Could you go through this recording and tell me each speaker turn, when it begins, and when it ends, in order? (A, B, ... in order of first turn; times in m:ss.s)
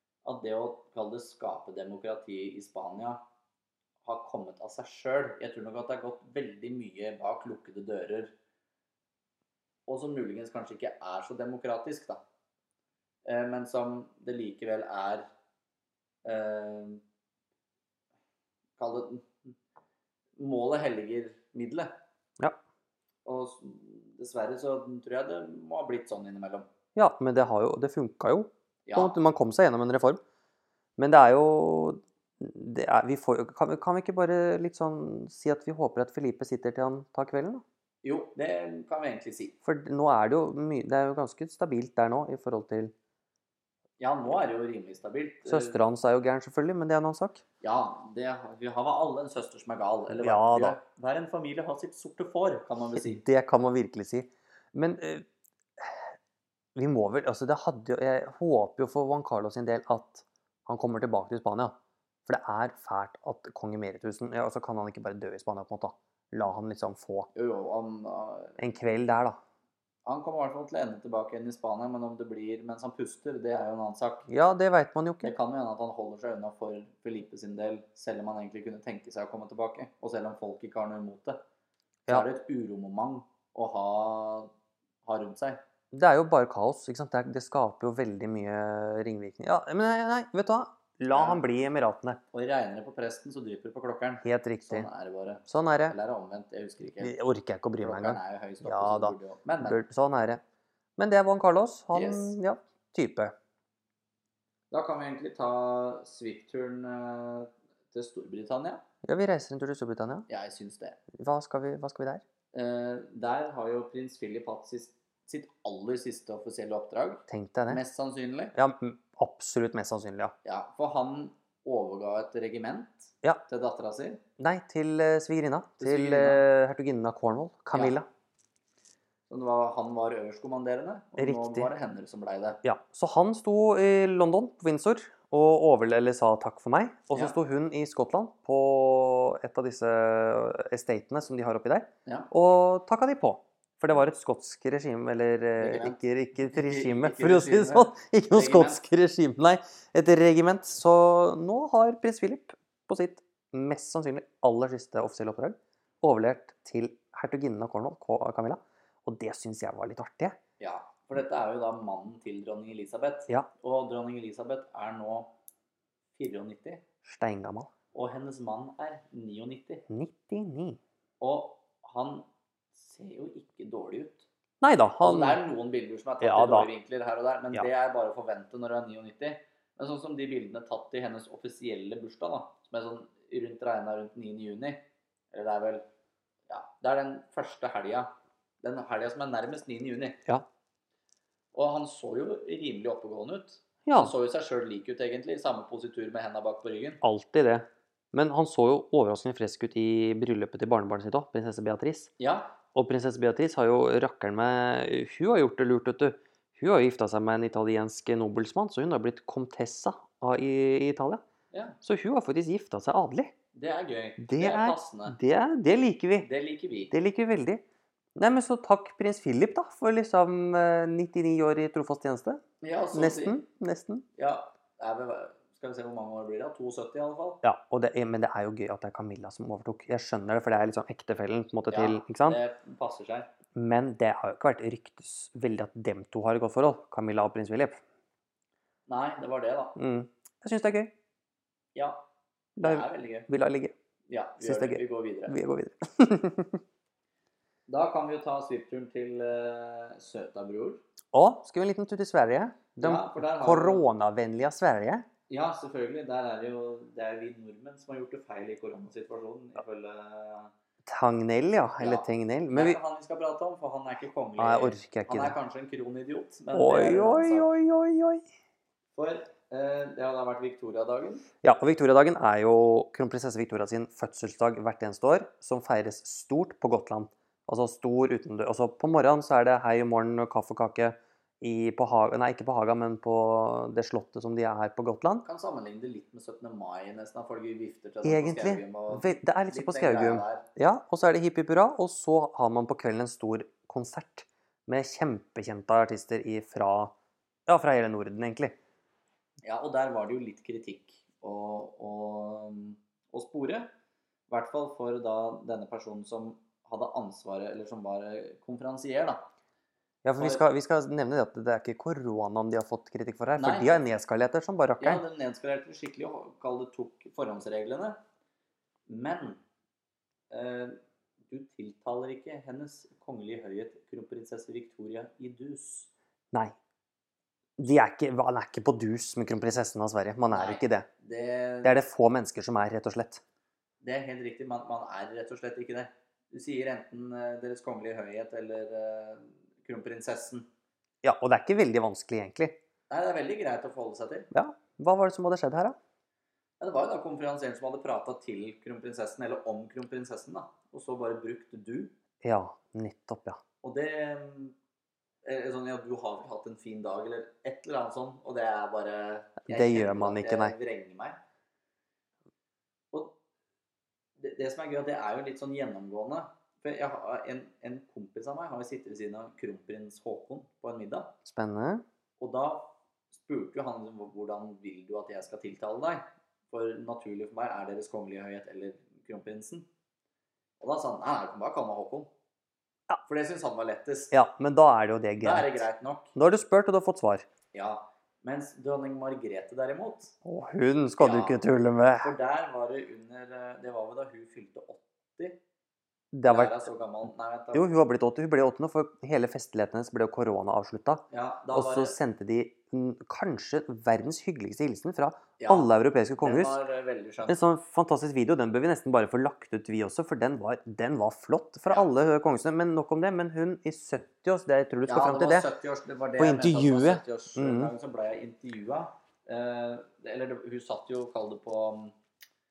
0:00.2-0:03.2 A
0:04.0-0:08.3 A
0:09.9-0:12.2 A
0:13.2-0:15.3 A
0:16.2-0:17.0 A
0:18.8-0:19.5 A
0:20.4-0:21.9 A
0:23.3-0:26.7 A
0:27.0-0:30.2 B
0:28.9-0:29.2 A
0:31.0-0:37.6 B
0:38.0-0:39.6 A
0:39.6-0:42.9 B
0:44.0-0:45.8 A
0:45.5-0:47.4 B
0:47.6-0:53.2 A
0:50.2-0:50.8 B
0:53.0-0:55.2 B
0:55.8-0:56.1 B
0:56.8-1:01.8 B
1:02.3-1:07.3 B
1:07.3-1:08.6 A
1:08.6-1:09.4 B
1:10.1-1:14.3 A
1:14.3-1:15.3 B
1:15.2-1:21.4 A
1:22.1-1:24.5 A
1:25.0-1:25.6 A
1:25.9-1:32.2 B
1:31.1-1:31.4 A
1:32.3-1:37.2 A
1:34.2-1:34.9 B
1:35.5-1:36.0 B
1:37.0-1:40.4 B
1:37.8-1:39.8 A
1:41.0-1:43.3 B
1:41.9-1:42.4 A
1:44.7-1:48.8 A
1:49.0-1:50.3 B
1:50.3-1:51.0 A
1:51.1-1:52.2 B
1:52.5-1:58.6 A
1:57.3-1:57.8 B
1:58.6-2:00.4 B
2:00.4-2:04.2 A
2:04.4-2:08.1 B
2:05.8-2:06.4 A
2:07.7-2:08.0 A
2:09.3-2:12.6 A
2:11.2-2:11.7 B
2:12.6-2:40.4 B
2:25.6-2:28.8 A
2:40.6-2:45.3 A
2:46.2-2:46.8 A
2:47.0-2:47.7 B
2:47.9-2:49.8 A
2:49.9-2:50.8 B
2:51.2-2:54.3 A
2:54.6-2:55.4 B
2:55.0-3:05.8 A
2:56.2-2:56.7 B
3:06.5-3:10.2 A
3:11.5-3:17.0 A
3:13.9-3:14.1 B
3:17.0-3:22.1 B
3:22.2-3:22.6 A
3:22.7-3:31.2 B
3:31.5-3:31.8 A
3:31.8-3:33.3 B
3:33.6-3:35.2 A
3:34.2-3:36.3 B
3:36.2-3:36.9 A
3:36.9-3:37.6 B
3:38.2-3:42.4 B
3:42.6-3:43.4 A
3:42.9-3:44.0 B
3:44.2-3:47.4 A
3:47.4-3:52.4 B
3:51.7-3:53.3 A
3:53.6-3:57.8 B
3:58.9-3:59.8 A
3:59.8-4:00.9 B
4:01.8-4:02.0 A
4:02.6-4:03.7 B
4:02.6-4:03.3 A
4:04.1-4:05.4 A
4:04.4-4:06.6 B
4:07.7-4:10.8 A
4:11.1-4:15.0 B
4:12.8-4:13.8 A
4:15.3-4:20.5 A
4:20.9-4:22.8 B
4:21.8-4:27.5 A
4:24.4-4:25.4 B
4:26.5-4:28.2 B
4:29.0-4:31.3 A
4:31.4-4:45.2 B
4:45.2-4:50.5 A
4:48.0-4:56.9 B
4:57.5-4:58.6 B
4:59.4-5:03.7 A
5:04.3-5:09.2 A
5:10.0-5:15.0 B
5:10.2-5:10.4 A
5:13.4-5:13.8 A
5:14.8-5:18.0 A
5:18.9-5:19.4 A
5:20.3-5:20.8 A
5:21.3-5:25.9 A
5:27.6-5:30.9 B
5:30.3-5:31.8 A
5:31.6-5:33.2 B
5:33.8-5:40.5 A
5:41.0-5:42.6 B
5:42.9-5:44.3 A
5:44.3-5:45.8 B
5:46.6-5:51.9 A
5:52.2-5:53.4 B
5:53.6-5:54.6 A
5:55.2-6:01.2 A
5:59.5-6:00.6 B
6:04.2-6:11.1 A
6:11.2-6:11.8 B
6:12.2-6:19.7 A
6:20.6-6:22.1 A
6:23.0-6:24.1 A
6:24.1-6:25.6 B
6:25.2-6:26.2 A
6:26.2-6:27.3 B
6:27.5-6:30.2 A
6:30.2-6:32.1 B
6:31.0-6:31.4 A
6:32.0-6:35.4 A
6:36.1-6:36.6 B
6:36.3-6:37.7 A
6:37.5-6:46.6 B
6:41.1-6:42.0 A
6:45.4-6:47.4 A
6:47.3-6:55.5 B
6:54.9-7:02.0 A
6:56.2-6:57.7 B